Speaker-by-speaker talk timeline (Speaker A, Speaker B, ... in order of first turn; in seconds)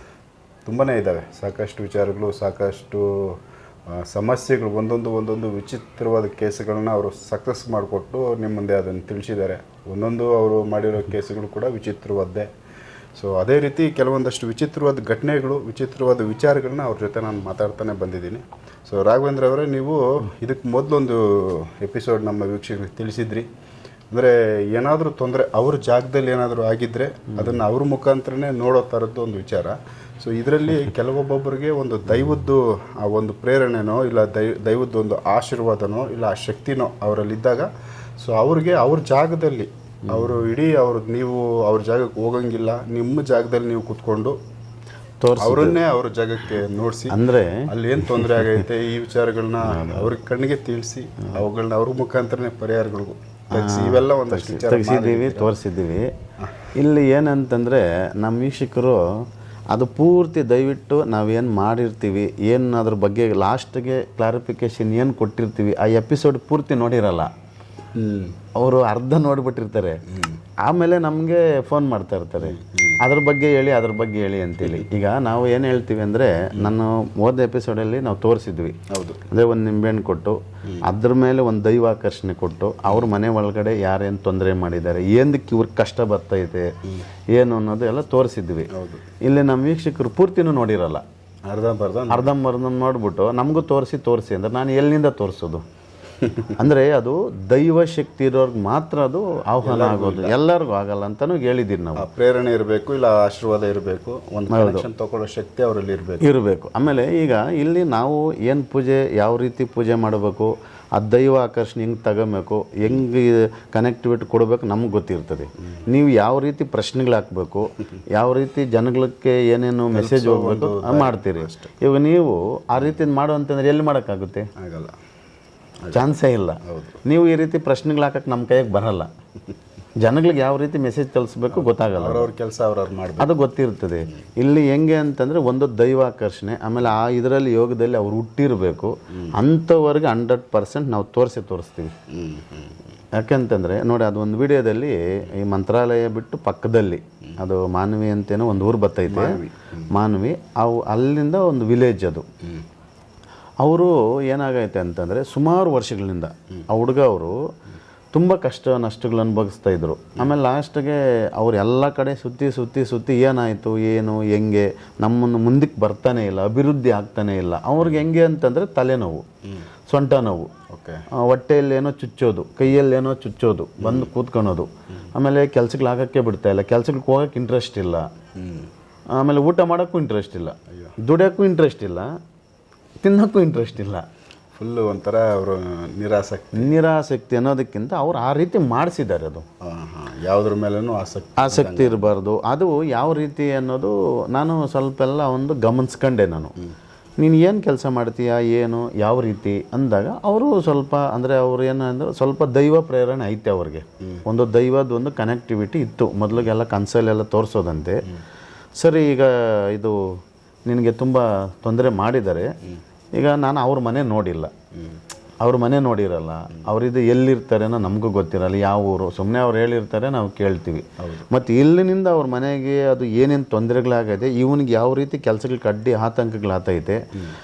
Speaker A: 0.7-12.5, 13.2-23.5, 24.1-37.7, 38.2-44.4, 45.4-55.5, 56.4-56.7, 67.9-68.4, 70.1-70.4, 72.4-73.0, 78.9-79.3, 88.7-89.0, 91.5-92.3, 96.2-96.5, 99.6-100.4, 102.0-106.3, 119.9-121.7, 124.6-124.9, 125.8-127.0, 131.5-133.4, 142.1-142.8, 149.1-149.9, 170.7-171.0, 173.8-174.1, 178.3-178.7, 180.7-180.9, 184.6-186.7, 189.6-192.1, 221.0-221.3
Speaker B: 27.4-27.6, 45.2-45.8, 47.1-48.6, 49.6-50.1, 53.5-56.1, 56.7-59.0, 59.7-67.3, 68.6-70.0, 70.6-86.7, 87.3-91.0, 92.1-95.6, 96.5-102.0, 104.5-104.9, 106.2-124.5, 125.9-129.1, 130.0-132.3, 133.2-141.9, 143.2-149.4, 149.9-152.2, 153.6-157.3, 158.1-169.2, 169.9-170.5, 171.2-178.1, 179.1-182.1, 183.0-184.0, 186.5-189.4, 191.4-196.5, 197.2-208.0, 208.8-210.0, 210.7-212.5, 213.2-214.5, 215.4-227.0